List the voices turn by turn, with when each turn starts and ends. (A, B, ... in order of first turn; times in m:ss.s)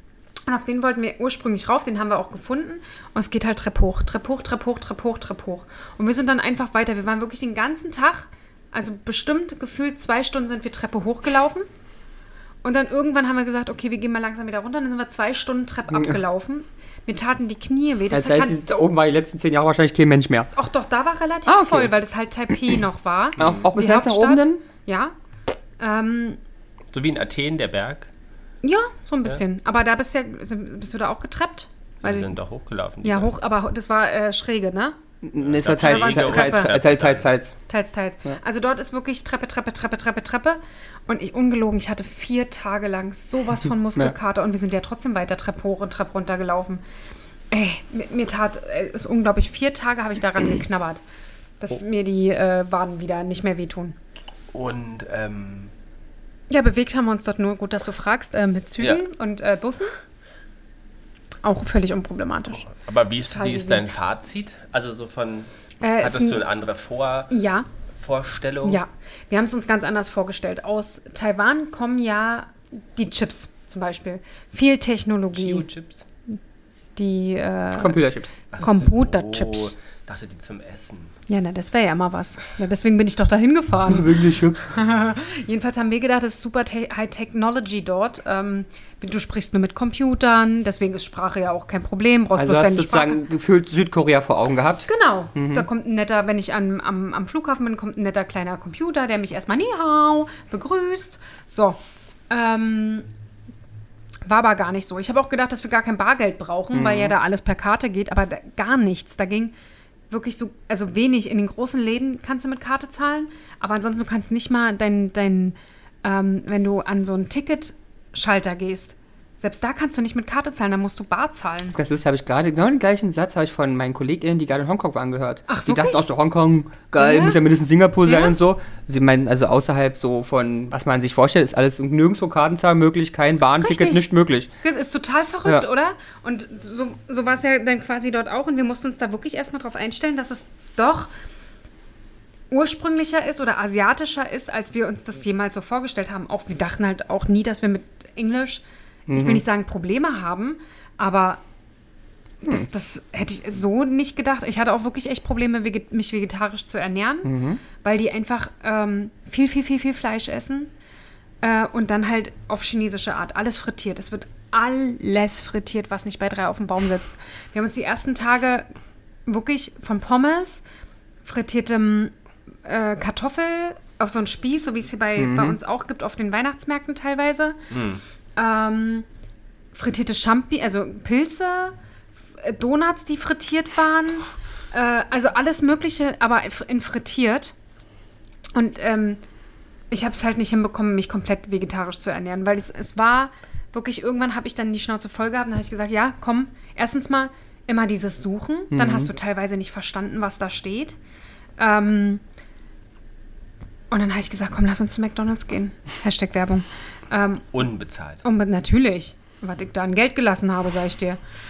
0:00.5-0:11.6 A
0:12.6-0:18.6 A
0:15.9-0:16.2 B
0:18.1-0:20.5 B
0:20.5-0:25.1 A
0:21.5-0:21.9 B
0:23.4-0:24.6 B
0:23.4-0:23.7 C
0:25.8-0:26.4 A
0:26.9-0:28.1 C
0:28.6-0:32.3 A
0:32.0-0:33.3 C
0:33.0-0:35.0 A
0:35.2-0:37.5 B
0:35.4-0:37.3 C
0:35.8-0:36.7 A
0:37.7-0:46.8 A
0:47.5-0:51.0 A
0:51.6-0:54.0 A
0:54.5-0:55.7 C
0:56.5-0:59.9 A
1:01.4-1:02.7 A
1:02.6-1:05.5 C
1:03.3-1:03.9 A
1:05.8-1:06.4 A
1:06.0-1:07.3 C
1:07.3-1:07.7 A
1:08.0-1:08.8 C
1:08.6-1:15.6 A
1:15.3-1:16.0 C
1:17.0-1:18.0 A
1:17.7-1:18.3 B
1:18.5-1:21.1 C
1:18.6-1:19.7 A
1:21.3-1:33.2 A
1:23.9-1:24.7 B
1:32.4-1:35.7 B
1:34.9-1:43.1 A
1:44.2-1:49.5 A
1:46.7-1:47.1 B
1:50.1-2:01.8 A
2:01.7-2:14.5 B
2:05.5-2:06.1 A
2:07.0-2:07.4 A
2:08.0-2:08.4 A
2:13.6-2:14.1 A
2:14.6-2:21.1 A
2:22.5-2:31.4 A
2:29.1-2:29.4 B
2:32.4-2:40.7 A
2:37.2-2:37.6 B
2:41.4-2:48.7 A
2:49.2-2:50.6 A
2:51.2-2:52.1 A
2:52.6-2:57.6 A
2:55.2-2:55.6 B
2:57.7-2:58.0 C
2:58.4-2:59.0 A
2:59.7-3:01.8 A
3:02.4-3:07.5 A
3:08.5-3:09.2 A
3:09.9-3:21.0 A
3:18.7-3:19.1 B
3:21.6-3:22.2 A
3:23.9-3:27.5 A
3:27.5-3:28.2 C
3:28.2-3:31.2 A